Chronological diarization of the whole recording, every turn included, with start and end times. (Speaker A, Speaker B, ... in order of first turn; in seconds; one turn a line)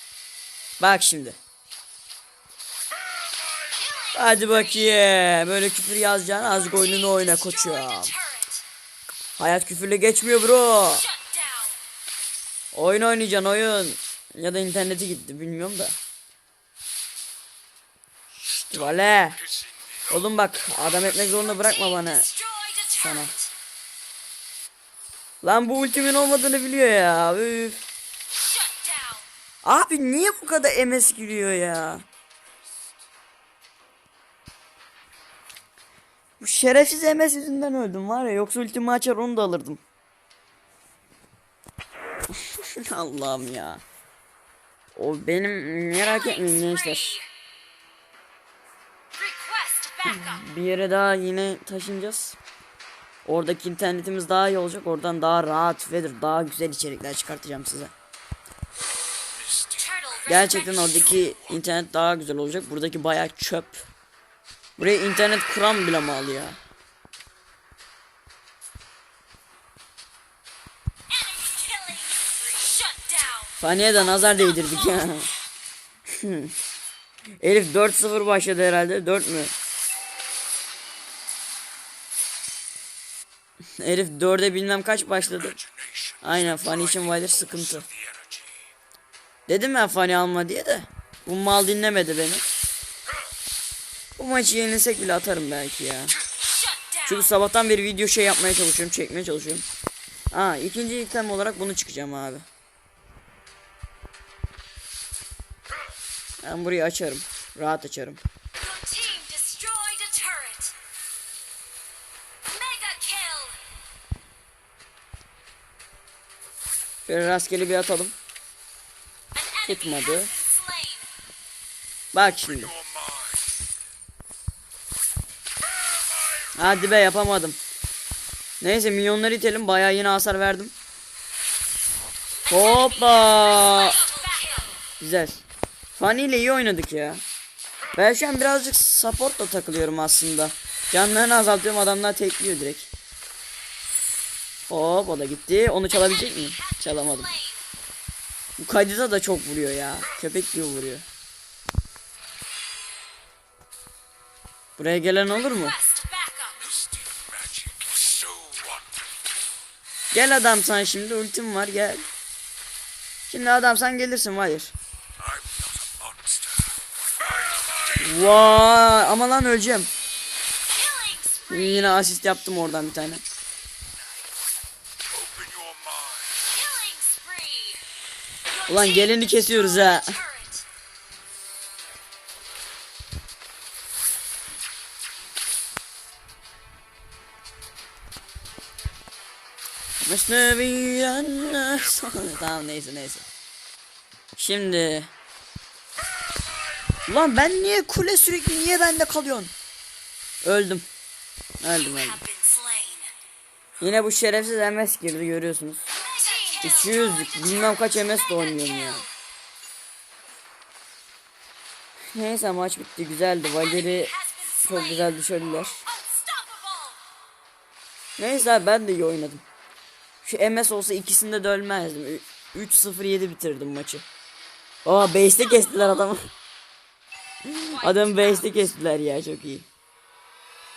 Speaker A: 0.8-1.4
Speaker B: 3.7-4.6
Speaker A: 4.1-8.1
Speaker B: 6.5-8.6
Speaker A: 9.4-11.1
Speaker B: 10.9-11.8
Speaker A: 12.7-16.0
Speaker C: 18.4-20.2
Speaker A: 18.7-19.4
Speaker A: 20.1-22.3
Speaker B: 21.1-23.5
Speaker A: 23.0-23.3
Speaker A: 25.4-27.8
Speaker B: 28.3-29.3
Speaker A: 29.6-32.0
Speaker A: 36.4-39.8
Speaker A: 42.5-43.8
Speaker A: 44.9-47.2
Speaker B: 46.0-47.3
Speaker B: 49.1-50.4
Speaker A: 50.0-52.4
Speaker A: 53.2-57.9
Speaker C: 59.3-60.0
Speaker B: 59.8-61.2
Speaker A: 60.2-63.8
Speaker C: 60.6-61.4
Speaker A: 64.8-66.6
Speaker B: 71.1-73.6
Speaker A: 73.6-75.3
Speaker B: 74.1-75.0
Speaker A: 76.2-76.5
Speaker A: 77.4-79.5
Speaker A: 83.8-85.6
Speaker C: 85.5-88.7
Speaker A: 86.2-87.8
Speaker A: 89.5-92.4
Speaker A: 94.2-96.1
Speaker B: 96.4-97.3
Speaker A: 97.0-99.7
Speaker A: 100.3-102.5
Speaker A: 106.4-108.2
Speaker B: 108.5-110.7
Speaker B: 112.4-113.6
Speaker A: 117.0-118.1
Speaker B: 119.3-121.1
Speaker A: 119.7-120.3
Speaker A: 122.1-122.7
Speaker C: 122.6-123.6
Speaker A: 126.5-127.6
Speaker A: 128.6-130.7
Speaker B: 132.4-134.8
Speaker A: 132.5-134.0
Speaker A: 135.0-135.4
Speaker A: 136.0-137.2
Speaker A: 137.9-142.9
Speaker A: 144.7-147.3
Speaker B: 145.9-147.6
Speaker A: 148.6-151.1
Speaker A: 154.8-155.8
Speaker B: 155.3-156.7
Speaker C: 156.6-158.9
Speaker A: 160.1-162.0
Speaker A: 163.3-164.7
Speaker C: 165.2-166.8
Speaker A: 168.0-169.9
Speaker B: 170.7-172.0
Speaker A: 171.5-173.2
Speaker C: 175.1-176.4
Speaker B: 176.5-177.8
Speaker B: 178.5-180.7
Speaker A: 178.7-180.2
Speaker A: 190.0-193.2
Speaker A: 194.3-195.1
Speaker A: 197.1-199.5
Speaker A: 200.4-200.8
Speaker A: 201.6-202.2
Speaker B: 201.7-203.1
Speaker A: 203.8-205.9
Speaker B: 205.9-209.1
Speaker A: 206.6-209.1
Speaker A: 212.1-214.1
Speaker B: 213.6-215.2
Speaker A: 214.6-215.8
Speaker B: 215.8-217.0
Speaker A: 218.2-219.4
Speaker A: 220.2-224.0
Speaker A: 224.8-226.3
Speaker B: 225.2-225.8
Speaker A: 227.4-229.7
Speaker B: 227.7-228.6